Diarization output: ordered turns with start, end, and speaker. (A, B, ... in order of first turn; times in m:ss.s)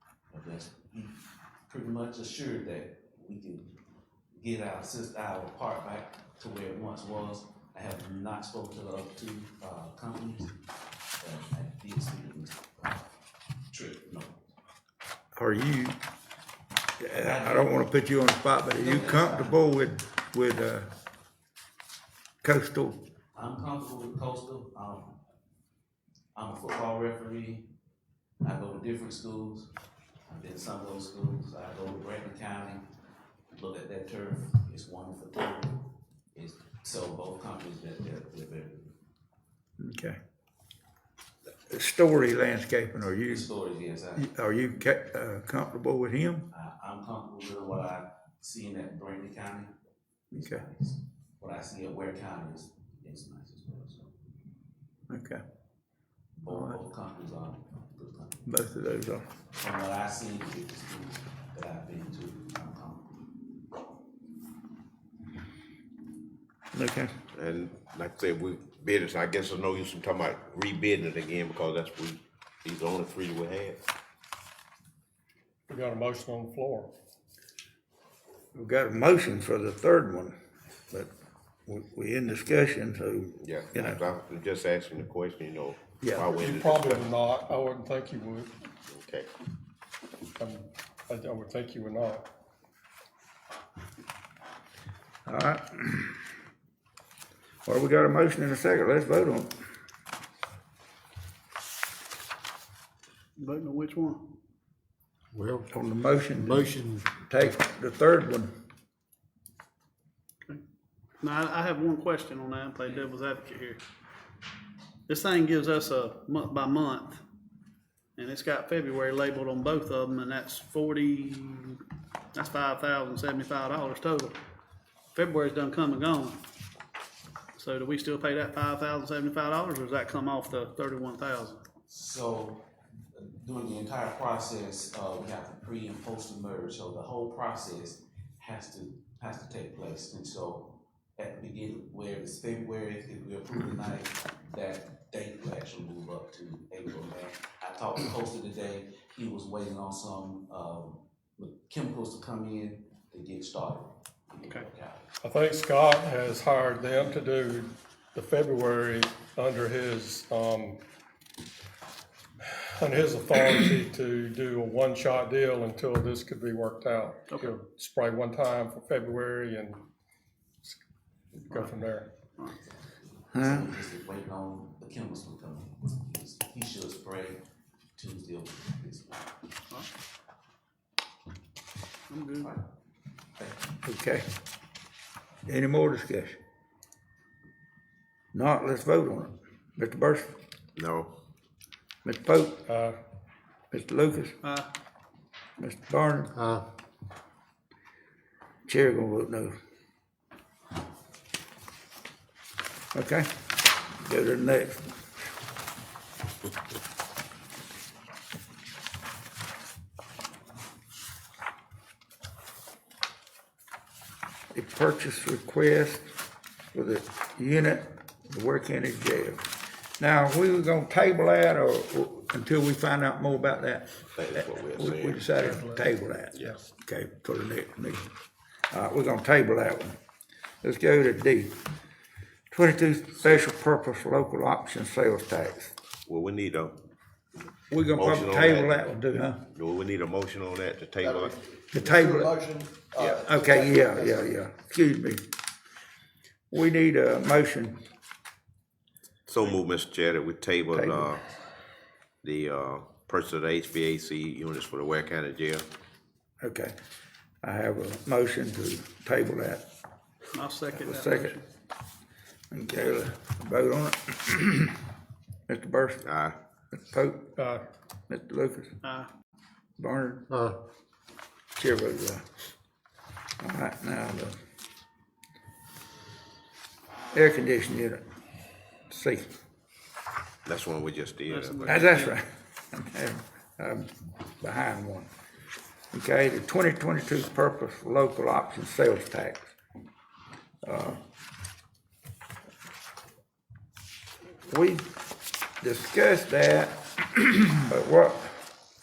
0:00.3-0:03.8 A
0:04.3-0:10.6 A
0:11.2-0:13.1 A
0:13.7-0:14.5 A
0:15.3-0:16.0 B
0:17.0-0:20.9 B
0:17.2-0:17.8 A
0:18.7-0:19.6 A
0:22.4-0:23.0 B
0:23.3-0:25.2 A
0:26.3-0:27.7 A
0:28.4-0:29.7 A
0:30.3-0:32.9 A
0:33.5-0:38.9 A
0:39.8-0:40.2 B
0:41.7-0:43.5 B
0:43.3-0:44.3 A
0:44.2-0:46.5 B
0:46.5-0:49.7 A
0:50.3-0:54.1 A
0:50.3-0:50.6 B
0:55.1-0:55.4 B
0:56.3-0:58.5 A
0:56.5-0:56.8 B
0:58.4-0:59.2 B
0:59.6-1:03.1 A
1:06.7-1:07.1 B
1:07.3-1:13.8 C
1:15.7-1:16.9 D
1:18.5-1:20.3 B
1:21.6-1:24.0 B
1:23.4-1:27.1 C
1:26.0-1:26.3 B
1:26.4-1:28.6 D
1:28.8-1:29.3 C
1:30.4-1:32.3 D
1:35.3-1:36.2 B
1:37.6-1:39.5 B
1:43.4-1:44.2 E
1:45.3-1:45.7 F
1:45.7-1:48.5 B
1:46.5-1:47.1 F
1:51.2-1:53.8 E
1:55.1-1:57.2 E
1:58.2-2:01.8 E
2:02.3-2:04.4 E
2:05.1-2:06.4 E
2:07.6-2:11.6 E
2:11.9-2:35.1 A
2:35.2-2:40.8 D
2:42.4-2:49.8 D
2:51.5-2:52.1 D
2:53.2-2:57.4 A
2:53.3-2:53.7 B
2:58.0-2:59.3 A
3:02.1-3:02.5 E
3:03.8-3:04.2 B
3:05.4-3:06.4 B
3:08.3-3:10.3 B
3:10.8-3:11.1 C
3:12.0-3:12.7 B
3:13.7-3:14.4 B
3:14.4-3:14.7 E
3:15.6-3:16.3 B
3:16.4-3:16.6 F
3:18.7-3:19.5 B
3:22.9-3:24.9 B
3:34.5-3:36.1 B
3:36.7-3:48.1 B
3:44.1-3:45.2 C
3:48.7-3:50.0 B
3:50.6-3:51.6 B
3:52.5-3:55.7 B
3:56.0-3:56.8 C
3:57.7-3:59.4 B
3:58.0-3:58.8 C
3:59.5-4:01.4 C
4:01.0-4:04.3 F
4:01.7-4:02.4 B
4:03.0-4:05.2 B
4:06.5-4:07.8 B
4:09.3-4:11.2 C
4:10.7-4:11.1 B
4:12.2-4:15.6 C
4:16.4-4:16.7 B
4:17.4-4:19.6 B
4:20.3-4:21.4 E
4:20.7-4:21.4 B
4:22.5-4:24.8 B
4:25.5-4:26.1 B
4:26.0-4:26.4 C
4:26.7-4:27.3 B
4:28.1-4:28.8 B
4:28.8-4:29.1 E
4:29.8-4:30.3 B
4:30.3-4:30.6 F
4:31.5-4:32.2 B
4:33.4-4:34.4 B
4:37.1-4:38.0 B
4:38.9-4:39.3 B
4:40.4-4:41.7 C
4:41.3-4:42.2 E
4:41.6-4:45.1 B
4:45.9-4:49.5 B
4:50.6-4:51.0 B
4:54.4-4:54.9 B
4:55.6-4:58.4 B